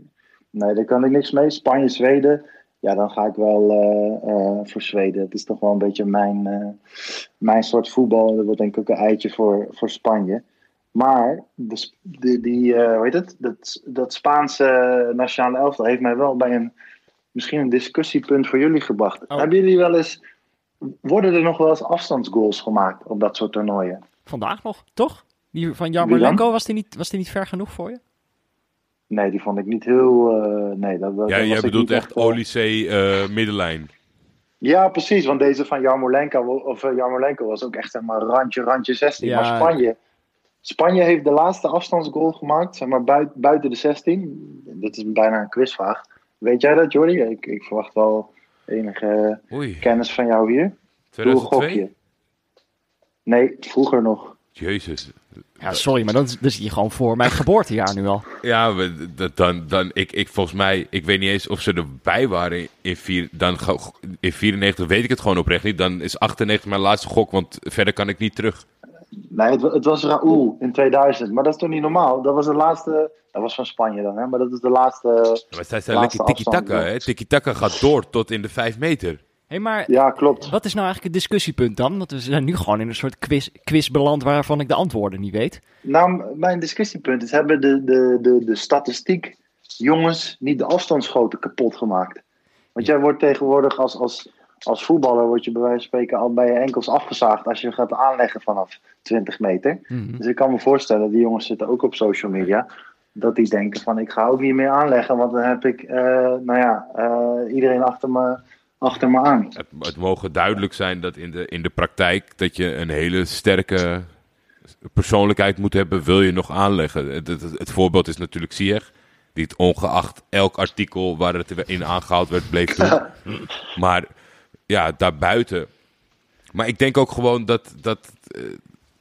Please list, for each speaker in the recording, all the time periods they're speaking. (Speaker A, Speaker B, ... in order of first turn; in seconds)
Speaker A: 0.5-6.8, 7.4-10.4, 10.9-16.7, 17.3-20.2, 21.1-24.0, 26.0-26.4, 29.1-32.4, 34.6-40.0, 40.6-51.9, 53.3-54.4, 69.3-76.9, 79.9-80.5, 85.8-92.2, 92.8-109.5
Speaker B: 24.3-28.0, 39.2-39.8, 55.6-58.2, 79.5-85.6, 99.9-100.2
Speaker C: 31.3-33.9, 49.5-49.9, 51.1-51.9, 54.6-55.8, 58.4-68.7, 75.5-79.2, 109.6-114.1, 114.9-123.1, 123.7-124.1, 124.7-125.7, 126.5-128.6